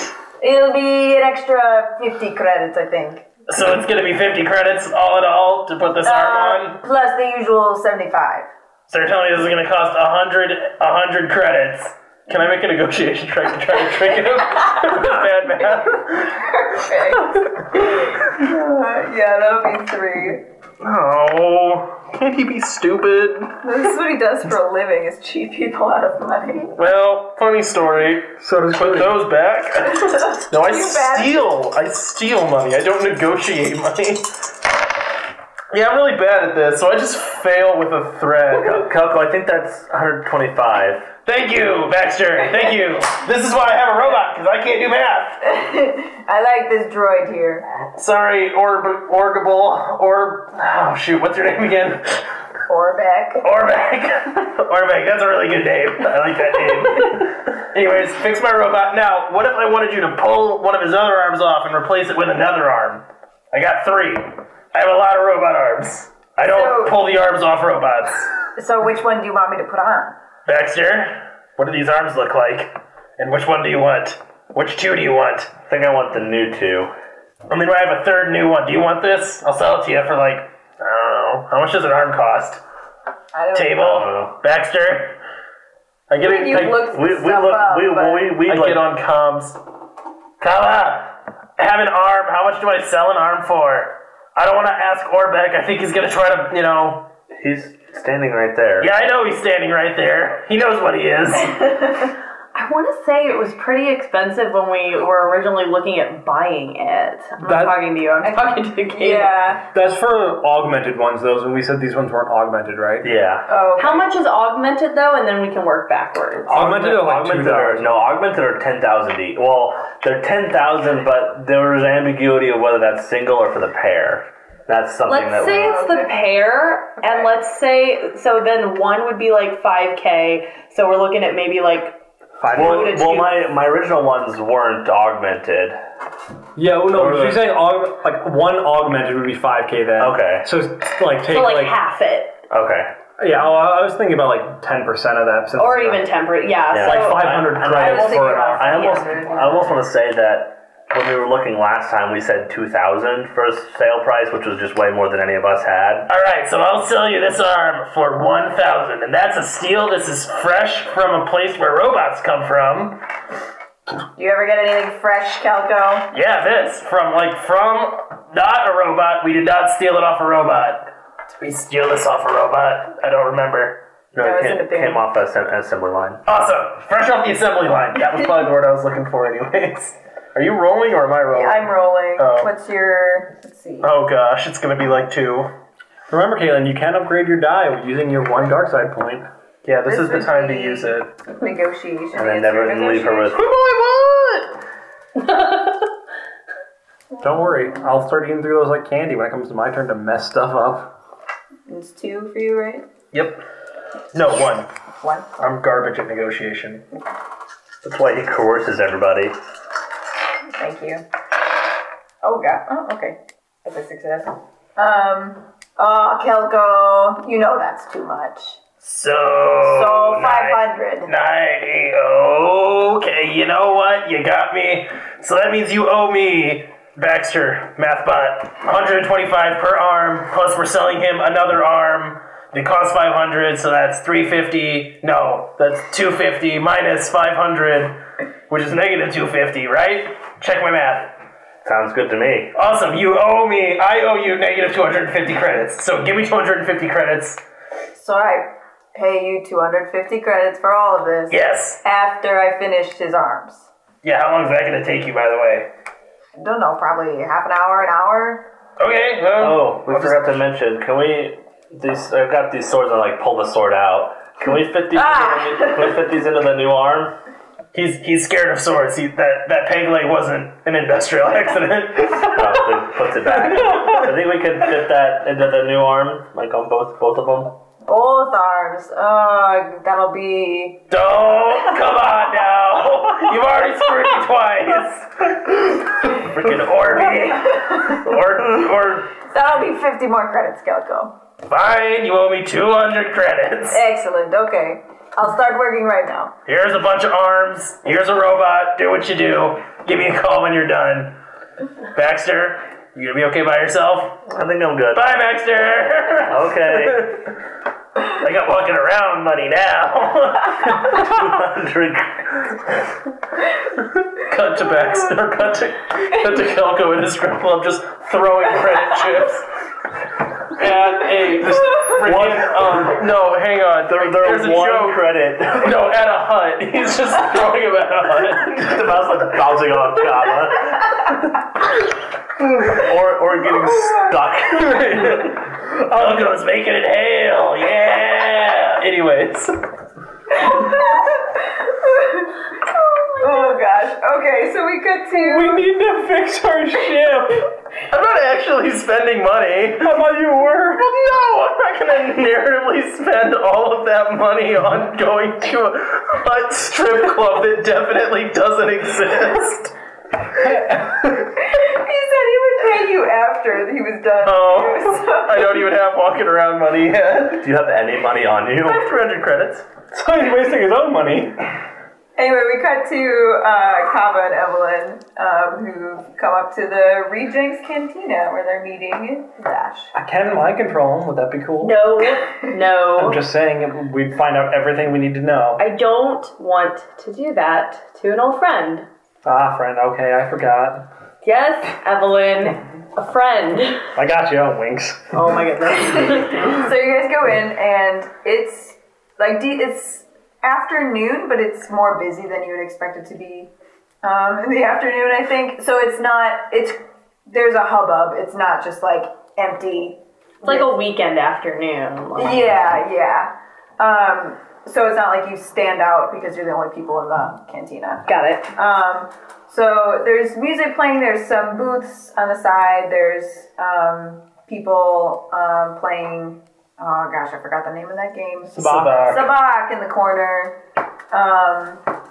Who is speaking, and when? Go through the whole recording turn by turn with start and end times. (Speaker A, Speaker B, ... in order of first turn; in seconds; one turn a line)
Speaker A: 0.4-3.2
Speaker B: 3.5-6.8
Speaker A: 6.0-8.5
Speaker B: 8.9-16.4
Speaker A: 16.3-20.4
Speaker B: 20.8-23.6
Speaker A: 23.6-26.7
Speaker B: 26.8-34.4
Speaker C: 28.4-29.2
Speaker A: 30.1-31.5
Speaker B: 35.7-38.9
Speaker D: 38.5-41.1
Speaker B: 41.2-45.4
Speaker A: 45.4-47.6
Speaker B: 48.0-52.2
Speaker A: 52.7-53.4
Speaker B: 53.4-68.3
Speaker A: 66.4-67.0
Speaker A: 68.6-70.2
Speaker B: 70.5-75.5
Speaker D: 75.7-76.9
Speaker B: 77.5-82.6
Speaker A: 83.3-84.1
Speaker B: 83.5-85.2
Speaker D: 83.8-84.3
Speaker B: 86.1-86.8
Speaker A: 86.2-88.3
Speaker D: 86.7-88.8
Speaker B: 88.5-89.6
Speaker B: 90.4-97.1
Speaker D: 97.4-98.9
Speaker B: 98.8-101.9
Speaker E: 102.5-109.4
Speaker C: 107.4-107.8
Speaker A: 108.2-109.7
Speaker C: 109.7-113.1
Speaker D: 113.0-113.5
Speaker A: 113.5-114.1
Speaker E: 113.8-116.7
Speaker C: 116.5-117.9
Speaker D: 116.5-125.8
Speaker E: 125.1-133.4
Speaker A: 125.4-126.2
Speaker A: 127.0-127.3
Speaker C: 132.4-132.9
Speaker D: 132.5-135.8
Speaker C: 136.6-141.8
Speaker D: 136.9-137.5
Speaker D: 140.0-140.5
Speaker E: 141.2-142.4
Speaker D: 142.5-142.9
Speaker C: 143.2-146.1
Speaker E: 145.6-147.4
Speaker D: 146.7-156.1
Speaker C: 146.8-149.0
Speaker A: 147.1-149.8
Speaker B: 156.1-163.0
Speaker A: 164.2-166.1
Speaker B: 166.1-173.8
Speaker D: 174.1-176.2
Speaker A: 174.2-175.0
Speaker B: 176.3-182.5
Speaker A: 181.3-183.9
Speaker B: 183.8-185.5
Speaker C: 186.1-189.3
Speaker B: 189.6-191.1
Speaker A: 189.8-193.4
Speaker D: 192.1-193.4
Speaker B: 193.3-194.6
Speaker C: 197.2-200.9
Speaker A: 201.7-202.9
Speaker B: 203.1-203.4
Speaker B: 204.1-204.7
Speaker A: 205.0-205.3
Speaker B: 205.4-206.8
Speaker D: 207.8-209.4
Speaker A: 210.6-211.0
Speaker A: 212.2-218.6
Speaker B: 218.8-241.1
Speaker A: 219.6-221.1
Speaker D: 241.6-242.5
Speaker B: 242.6-247.4
Speaker A: 247.9-253.7
Speaker B: 251.3-251.8
Speaker B: 254.0-255.7
Speaker A: 256.4-258.4
Speaker B: 258.8-260.4
Speaker D: 259.4-267.1
Speaker A: 264.9-266.0
Speaker B: 267.7-272.8
Speaker D: 272.3-277.6
Speaker C: 273.6-274.0
Speaker A: 277.9-280.9
Speaker B: 280.9-289.1
Speaker D: 286.4-286.7
Speaker A: 286.9-288.0
Speaker A: 289.3-291.1
Speaker B: 291.5-293.8
Speaker A: 293.7-296.3
Speaker B: 296.5-301.2
Speaker B: 301.9-304.2
Speaker D: 304.3-305.2
Speaker B: 304.9-307.2
Speaker D: 306.3-307.1
Speaker B: 308.1-311.2
Speaker D: 310.9-312.6
Speaker B: 314.1-319.5
Speaker B: 320.5-328.8
Speaker D: 321.9-323.0
Speaker D: 323.9-325.9
Speaker D: 328.5-331.2
Speaker D: 332.7-335.4
Speaker A: 333.7-334.3
Speaker C: 334.8-336.4
Speaker B: 334.9-335.2
Speaker B: 335.9-339.6
Speaker A: 340.3-345.7
Speaker C: 345.1-347.5
Speaker B: 347.9-350.0
Speaker C: 349.8-351.0
Speaker B: 350.7-359.7
Speaker C: 360.4-361.3
Speaker A: 361.3-365.6
Speaker B: 364.2-367.5
Speaker D: 367.3-368.9
Speaker B: 368.6-369.7
Speaker C: 369.9-371.4
Speaker A: 372.2-379.9
Speaker C: 379.9-381.9
Speaker E: 381.6-383.2
Speaker C: 382.9-385.6
Speaker E: 385.6-388.9
Speaker C: 389.2-390.9
Speaker E: 391.2-393.9
Speaker C: 394.0-395.1
Speaker E: 395.1-396.6
Speaker A: 395.8-403.5
Speaker A: 404.0-410.7
Speaker E: 410.4-412.5
Speaker A: 412.2-430.6
Speaker E: 418.1-418.5
Speaker C: 428.6-429.2
Speaker B: 428.6-429.2
Speaker A: 431.1-431.8